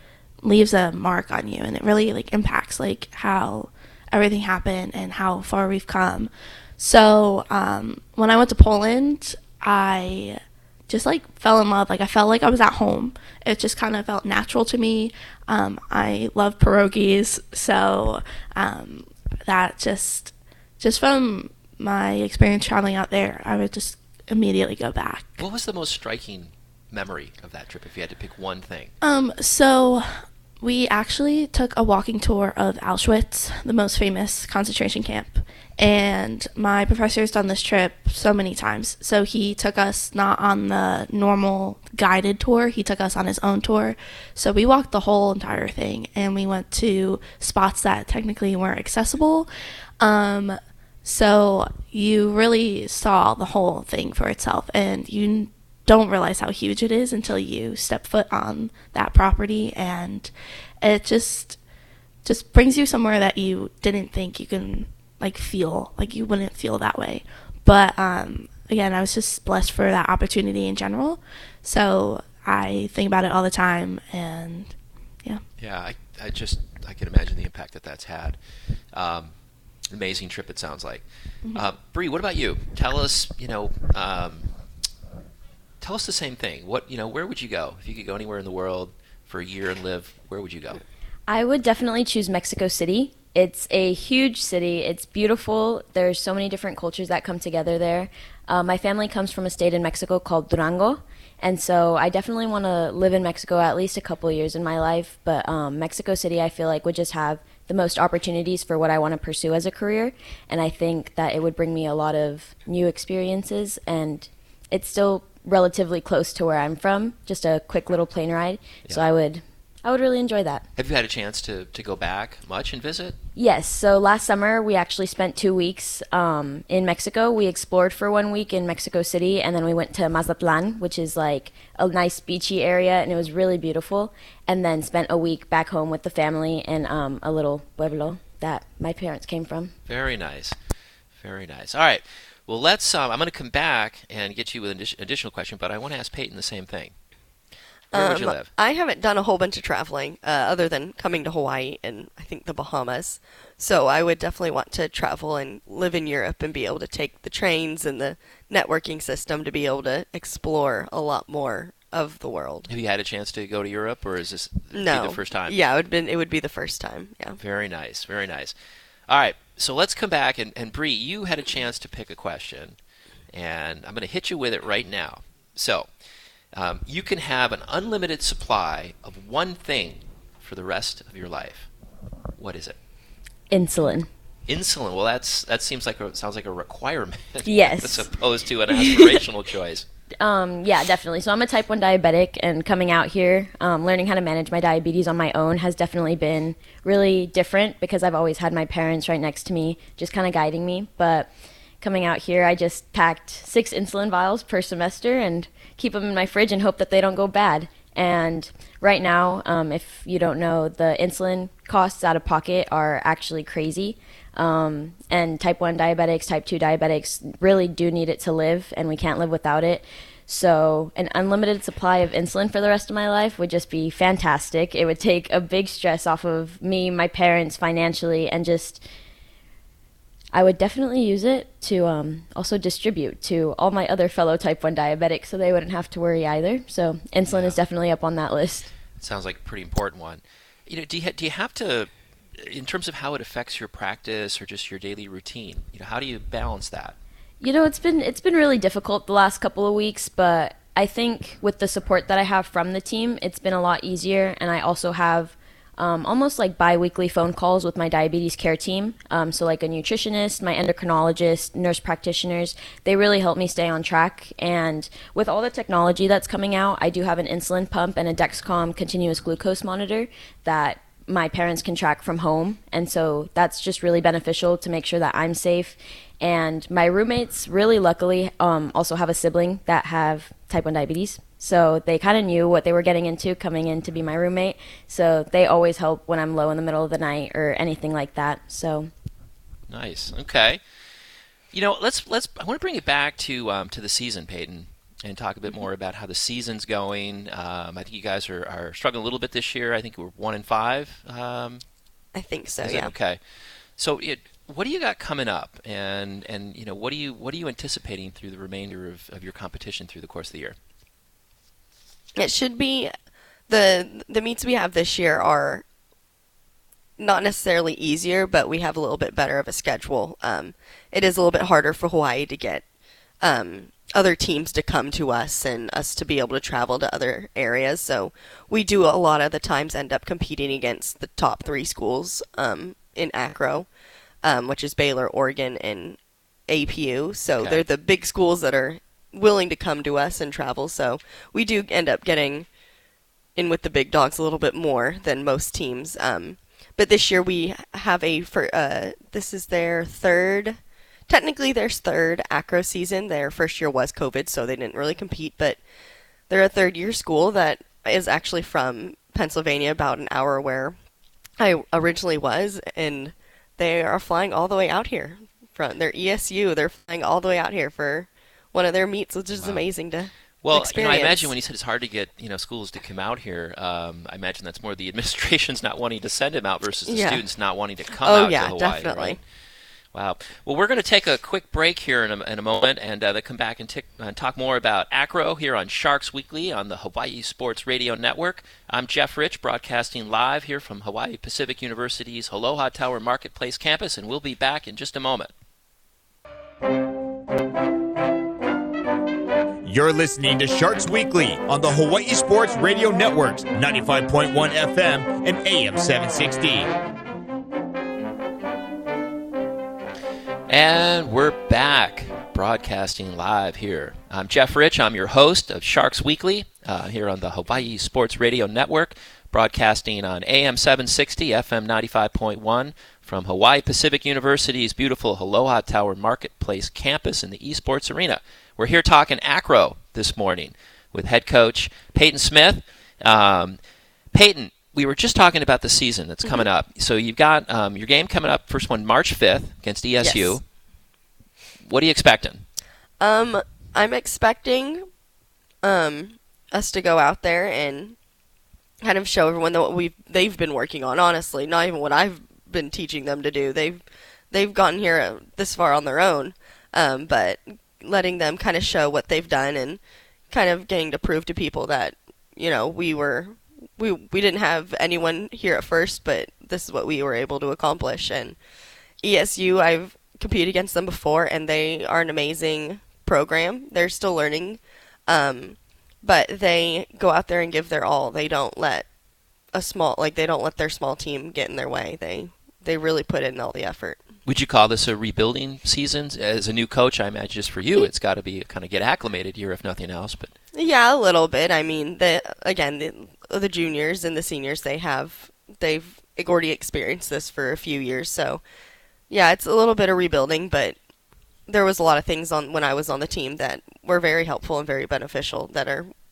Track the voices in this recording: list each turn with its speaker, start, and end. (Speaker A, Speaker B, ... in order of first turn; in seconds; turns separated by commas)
Speaker A: 0.4-25.4, Speaker B: 25.4-28.9, Speaker A: 29.0-49.5, Speaker A: 50.0-60.3, Speaker A: 60.8-61.6, Speaker A: 62.2-75.4, Speaker B: 75.6-78.4, Speaker B: 78.9-79.3, Speaker B: 79.9-84.5, Speaker B: 85.8-90.8, Speaker C: 91.3-120.6, Speaker B: 120.8-123.2, Speaker C: 123.4-139.7, Speaker B: 139.9-140.6, Speaker B: 141.2-146.9, Speaker D: 147.9-162.7, Speaker B: 147.9-148.5, Speaker B: 162.7-165.6, Speaker D: 164.7-167.4, Speaker B: 167.4-168.5, Speaker B: 169.1-172.8, Speaker B: 173.3-175.9, Speaker B: 176.5-181.7, Speaker B: 182.4-182.8, Speaker C: 183.5-184.1, Speaker B: 184.5-189.9, Speaker C: 187.4-188.1, Speaker C: 188.7-189.1, Speaker C: 190.2-201.3, Speaker C: 201.8-228.8, Speaker C: 230.3-238.7, Speaker B: 237.3-237.6, Speaker B: 239.0-246.9, Speaker C: 247.4-288.9, Speaker B: 289.7-290.6, Speaker B: 291.5-301.6, Speaker D: 302.1-302.9, Speaker B: 302.6-303.2, Speaker B: 303.8-310.6, Speaker D: 312.1-312.9, Speaker D: 313.5-315.6, Speaker D: 317.0-322.6, Speaker D: 323.2-333.7, Speaker D: 334.2-342.5, Speaker D: 343.4-355.6, Speaker D: 356.3-360.8, Speaker D: 361.4-371.3, Speaker B: 369.3-369.6, Speaker B: 370.4-379.2, Speaker D: 376.9-377.2, Speaker D: 378.0-379.2, Speaker B: 379.9-395.3, Speaker E: 399.6-406.7, Speaker B: 410.5-433.6, Speaker B: 434.1-440.4, Speaker D: 440.0-440.4, Speaker B: 441.6-442.5, Speaker D: 443.0-444.9, Speaker D: 445.6-448.0, Speaker D: 448.8-468.4, Speaker D: 469.0-478.9, Speaker D: 479.5-484.0, Speaker B: 484.2-490.3, Speaker D: 490.5-498.4, Speaker D: 499.1-500.8, Speaker D: 501.5-505.9